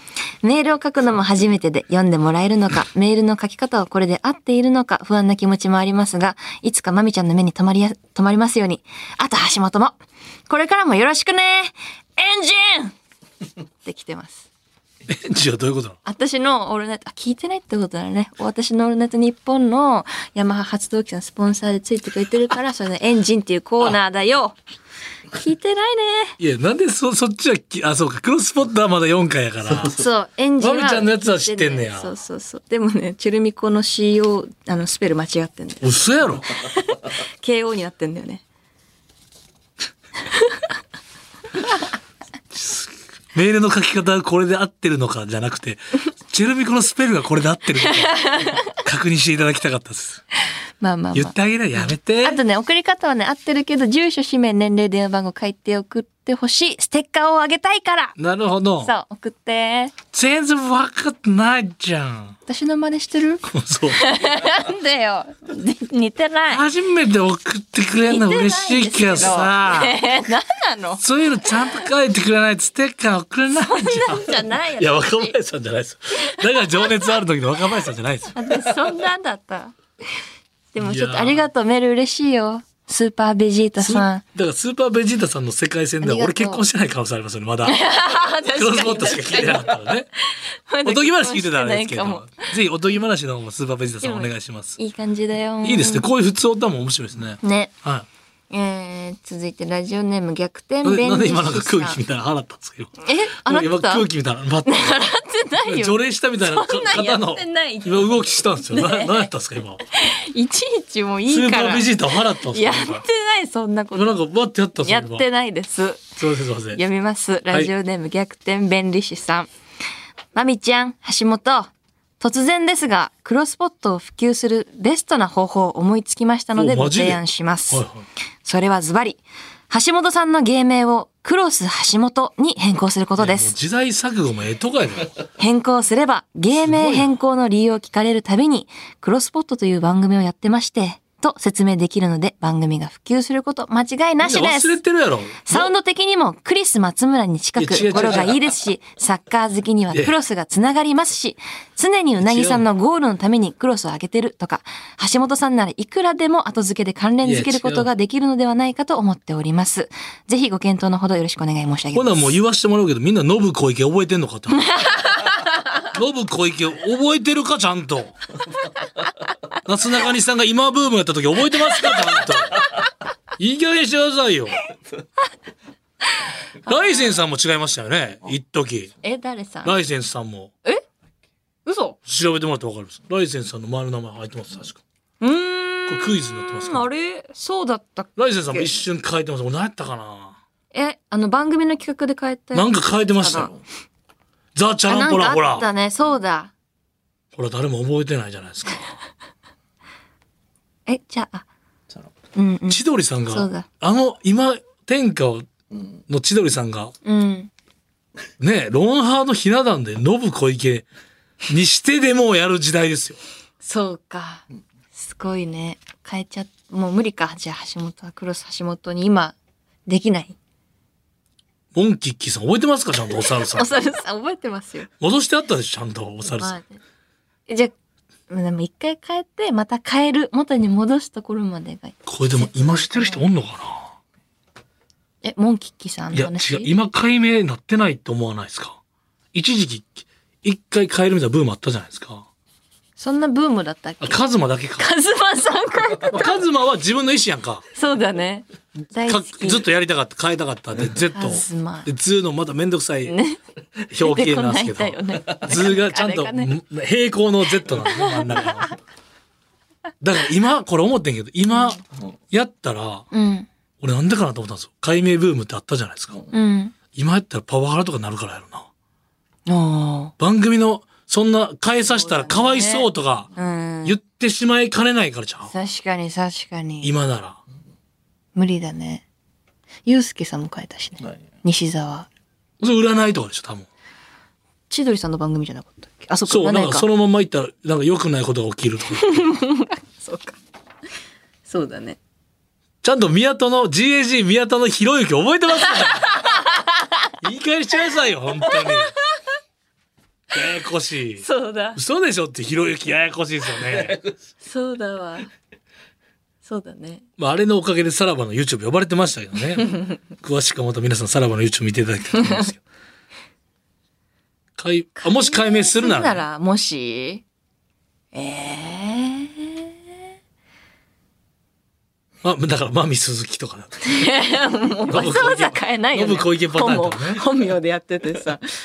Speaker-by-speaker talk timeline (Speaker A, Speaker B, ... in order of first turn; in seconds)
Speaker A: 0.4-10.0, 10.5-12.9, 13.8-14.5, 16.1-24.6, 25.3-26.4, 29.9-38.4, 40.3-40.6, 47.8-48.7, 50.8-58.2, 58.8-60.0, 62.5-66.6, 68.1-71.0, 73.6-75.3, 76.3-76.7, 78.3-79.8, 80.7-84.2, 86.0-86.7, 87.7-92.5, 94.0-96.1, 97.4-97.7, 98.5-102.0, 103.0-104.1, 104.7-109.3, 109.9-111.9, 112.5-114.2, 114.8-116.1, 116.7-119.5, 120.3-127.8, 128.4-133.5, 135.4-144.8, 145.4-162.3, 164.6-165.8, 176.2-177.2, 179.0-179.8, 181.7-182.0, 185.2-188.8, 190.7-193.5, 194.9-196.5, 200.9-201.5, 202.3-203.7, 207.0-207.5, 213.6-219.4, 219.9-220.4, 223.3-224.9, 226.4-226.8, 227.5-227.7, 228.3-233.2, 235.2-236.7, 243.0-244.2, 244.8-246.3, 247.7-249.7, 251.1-251.9, 253.1-253.4, 254.0-256.5, 257.9-258.7, 263.1-263.5, 266.3-266.8, 269.5-270.1, 271.9-274.0, 275.5-276.9, 278.4-279.1, 279.9-282.1, 284.7-286.9, 289.0-290.4, 291.5-292.0, 295.6-297.1, 298.4-299.1, 301.2-301.8, 304.4-305.3, 306.4-307.0, 309.7-309.9, 315.0-317.2, 318.1-319.7, 323.8-328.4
Speaker B: 15.1-16.0, 26.4-30.0, 30.6-32.1, 35.8-36.5, 42.5-50.2, 51.1-52.4, 58.2-58.9, 60.1-62.4, 63.5-64.0, 66.5-70.0, 71.0-78.4, 80.8-81.5, 83.8-87.8, 88.5-90.1, 90.8-94.8, 95.6-98.1, 100.8-105.0, 105.7-109.8, 111.3-113.0, 113.9-115.2, 116.2-116.8, 126.6-128.1, 133.2-135.2, 136.5-137.1, 144.2-145.7, 147.6-148.4, 152.2-152.7, 157.2-157.9, 161.9-164.7, 165.9-168.2, 169.7-172.6, 173.4-174.6, 176.6-178.9, 179.7-180.5, 182.1-184.8, 185.9-186.9, 188.2-190.4, 192.5-193.5, 194.6-195.7, 197.3-198.9, 202.7-205.5, 206.1-206.9, 208.4-210.9, 211.5-213.2, 221.7-223.8, 225.0-226.6, 232.1-233.9, 236.1-238.8, 239.3-242.3, 244.0-244.9, 246.1-247.6, 249.1-253.2, 253.9-258.8, 260.0-261.8, 262.3-263.1, 263.8-266.2, 266.9-268.7, 270.2-273.3, 273.8-275.5, 276.8-277.4, 282.6-283.7, 286.3-289.3, 292.8-296.2, 297.2-298.9, 300.3-304.0, 307.2-312.6, 314.6-316.2, 322.2-323.8, 324.9-327.2